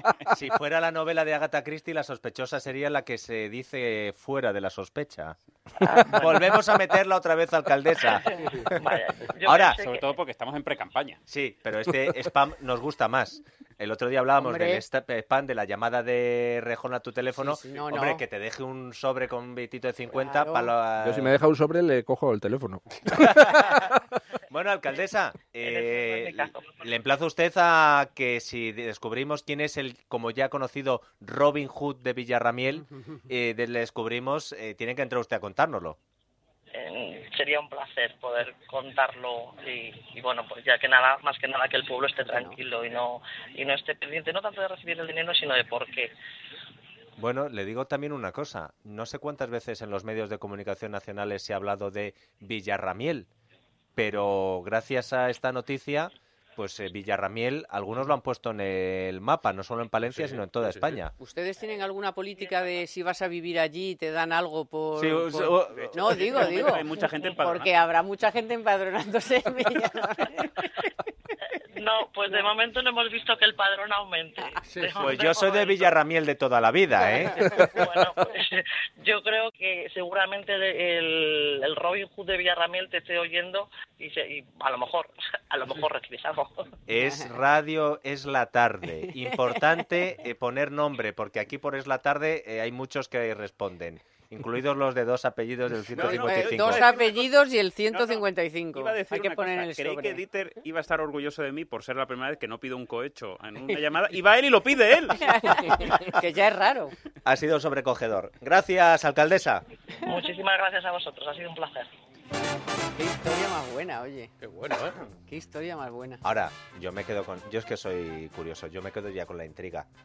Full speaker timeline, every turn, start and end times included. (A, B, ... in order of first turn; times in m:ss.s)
0:00.3-0:05.4 A
0:05.8-0:06.6 B
0:06.1-0:08.7 A
0:08.0-0:10.1 B
0:09.4-0:09.8 A
0:09.8-0:11.2 C
0:11.3-0:21.4 A
0:14.4-0:14.8 D
0:17.4-0:18.2 D
0:20.1-0:20.7 D
0:21.0-0:24.0 E
0:23.2-0:23.8 A
0:24.5-0:36.0 A
0:25.6-0:26.8 B
0:36.7-0:46.1 B
0:42.2-0:42.6 D
0:47.2-0:53.3 A
0:54.0-1:01.1 A
1:00.1-1:01.0 F
1:01.1-1:10.6 D
1:01.6-1:02.9 B
1:05.0-1:06.5 A
1:05.6-1:07.7 C
1:11.8-1:15.9 B
1:14.6-1:15.0 F
1:15.0-1:17.4 A
1:17.0-1:26.5 B
1:26.9-1:36.8 A
1:29.4-1:29.6 D
1:35.9-1:45.6 C
1:36.0-1:40.2 D
1:45.2-1:46.9 D
1:47.2-1:49.6 A
1:50.0-1:51.9 B
1:53.0-1:54.3 D
1:54.4-1:55.0 F
1:55.1-1:56.2 D
1:56.2-1:59.9 A